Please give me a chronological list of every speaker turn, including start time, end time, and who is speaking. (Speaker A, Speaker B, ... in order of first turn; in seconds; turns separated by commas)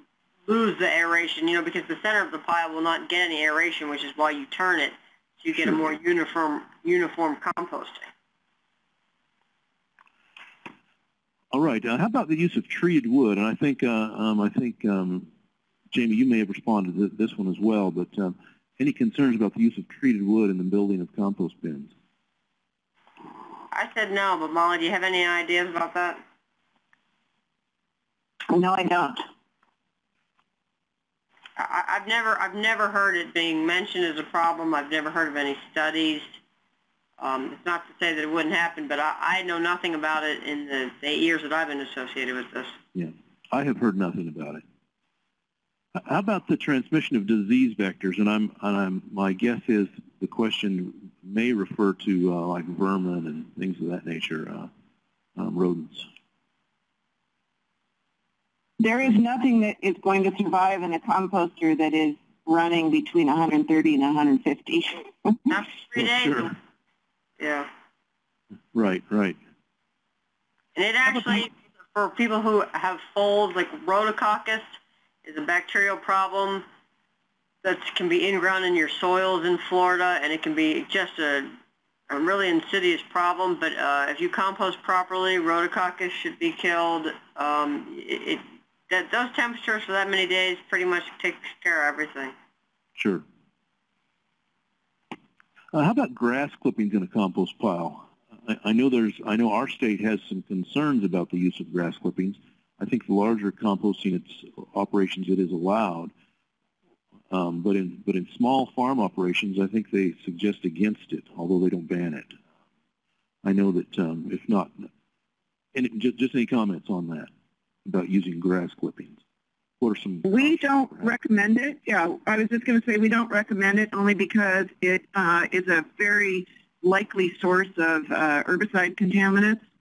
Speaker A: 0.5-8.1, Speaker B: 11.5-15.3, Speaker B: 15.9-21.9, Speaker A: 23.7-26.2, Speaker C: 28.5-29.2, Speaker A: 31.6-36.3, Speaker A: 37.2-42.8, Speaker B: 42.9-44.6, Speaker B: 45.9-54.7, Speaker B: 55.4-56.1, Speaker C: 58.8-65.5, Speaker A: 65.5-66.5, Speaker B: 66.0-66.5, Speaker A: 67.4-67.7, Speaker B: 68.7-69.4, Speaker A: 70.7-76.6, Speaker A: 77.6-81.5, Speaker A: 82.1-92.3, Speaker B: 93.0-93.2, Speaker B: 95.7-106.1, Speaker B: 107.3-112.3, Speaker B: 113.4-114.9, Speaker B: 115.7-117.3, Speaker B: 117.8-119.2, Speaker B: 119.8-120.5, Speaker C: 120.2-129.6